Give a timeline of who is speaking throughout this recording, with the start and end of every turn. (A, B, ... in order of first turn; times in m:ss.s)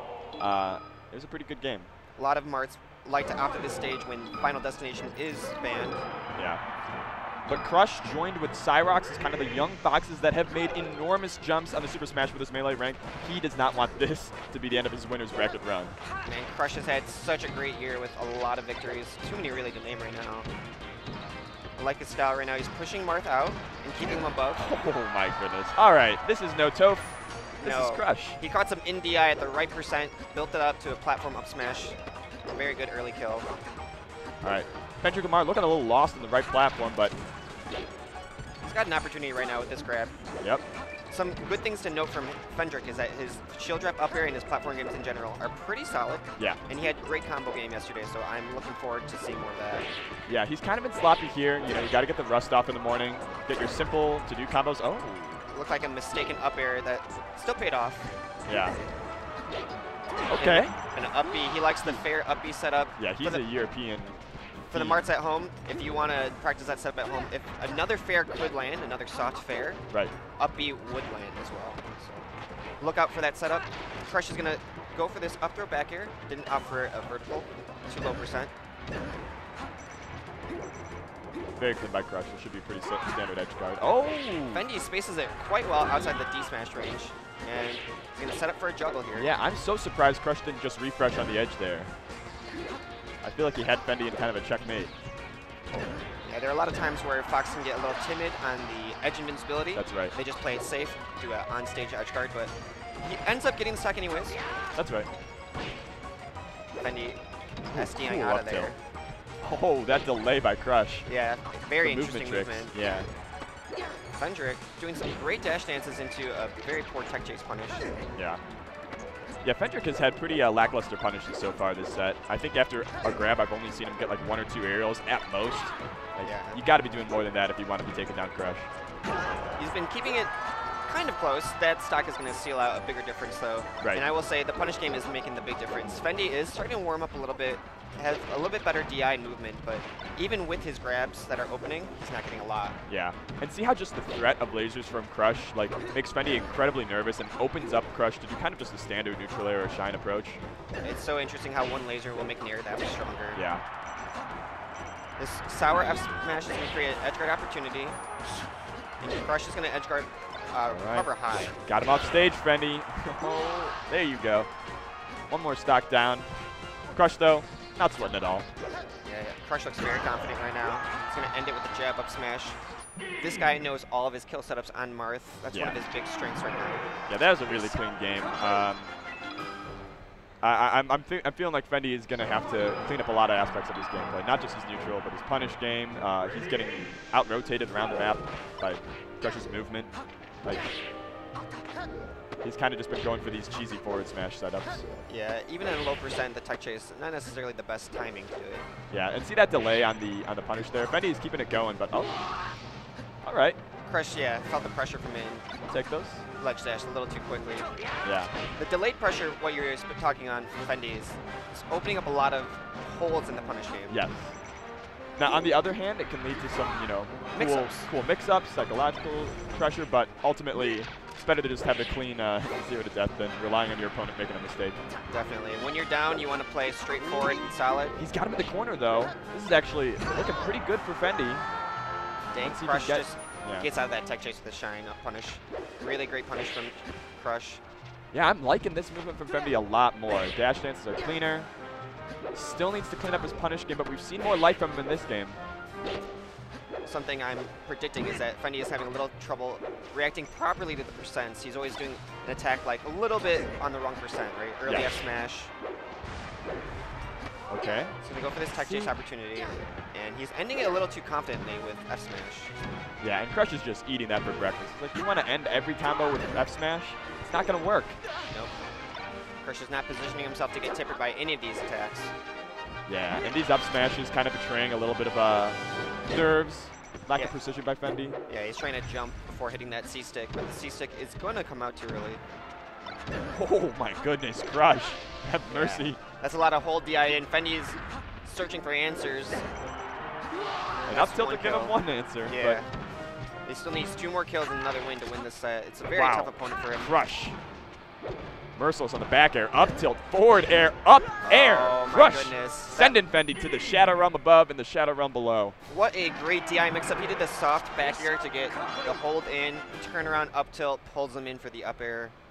0:00.4-0:01.9 A
0:02.2-0:06.0 B
0:07.5-0:16.0 A
0:16.2-0:20.5 B
0:21.8-0:24.6 B
0:24.6-0:28.4 A
0:27.6-0:32.0 B
0:32.5-0:33.5 B
0:34.4-0:37.1 A
0:38.6-0:40.2 B
0:41.1-0:49.8 B
0:50.3-0:55.4 A
0:55.4-0:58.1 B
0:58.4-0:58.8 A
1:00.3-1:00.8 A
1:00.4-1:03.4 B
1:03.0-1:04.2 A
1:04.7-1:09.8 B
1:04.7-1:05.0 A
1:10.4-1:12.2 B
1:12.8-1:18.5 B
1:21.6-1:24.6 A
1:24.5-1:29.3 B
1:29.1-1:31.9 A
1:33.2-1:34.9 A
1:36.2-1:44.4 B
1:39.7-1:40.1 A
1:44.7-1:45.1 A
1:46.8-1:48.8 B
1:47.7-1:48.7 A
1:49.4-1:51.1 A
1:51.0-1:52.8 B
1:51.8-1:53.1 A
1:54.2-1:57.8 B
1:58.1-1:58.4 A
1:59.4-2:08.7 A
2:06.2-2:06.6 B
2:09.6-2:10.3 B
2:10.8-2:22.8 B
2:22.9-2:30.4 A
2:30.8-2:33.4 B
2:33.3-2:33.6 A
2:35.2-2:38.0 B
2:39.0-2:41.6 B
2:40.7-2:41.1 A
2:41.6-2:44.5 A
2:45.3-2:46.3 A
2:46.9-2:48.5 A
2:49.0-2:52.6 B
2:53.2-2:56.9 B
2:55.5-2:55.8 A
2:57.1-2:58.9 A
3:00.4-3:10.7 A
3:12.4-3:14.8 A
3:15.1-3:18.7 B
3:18.9-3:22.2 A
3:23.2-3:23.6 A
3:23.8-3:25.4 B
3:25.7-3:26.2 A
3:26.4-3:27.7 B
3:28.0-3:28.3 A
3:28.5-3:34.0 B
3:33.9-3:34.4 A
3:35.2-3:44.8 A
3:37.3-3:37.9 B
3:45.1-3:48.0 B
3:48.0-3:51.4 A
3:52.3-3:57.6 B
3:52.4-3:53.7 A
3:58.1-4:01.5 A
4:02.3-4:05.4 A
4:06.8-4:15.5 B
4:14.6-4:15.0 A
4:17.5-4:17.9 A
4:18.0-4:22.5 B
4:18.5-4:18.9 A
4:23.0-4:28.0 A
4:28.3-4:28.7 B
4:29.4-4:32.1 B
4:32.9-4:38.2 A
4:38.3-4:42.2 B
4:43.3-4:46.0 A
4:45.5-4:49.4 B
4:50.8-4:52.7 B
4:50.9-4:52.6 A
4:53.4-4:56.9 B
4:55.9-4:57.4 A
4:58.5-5:05.6 A
5:01.2-5:03.0 B
5:05.7-5:12.1 B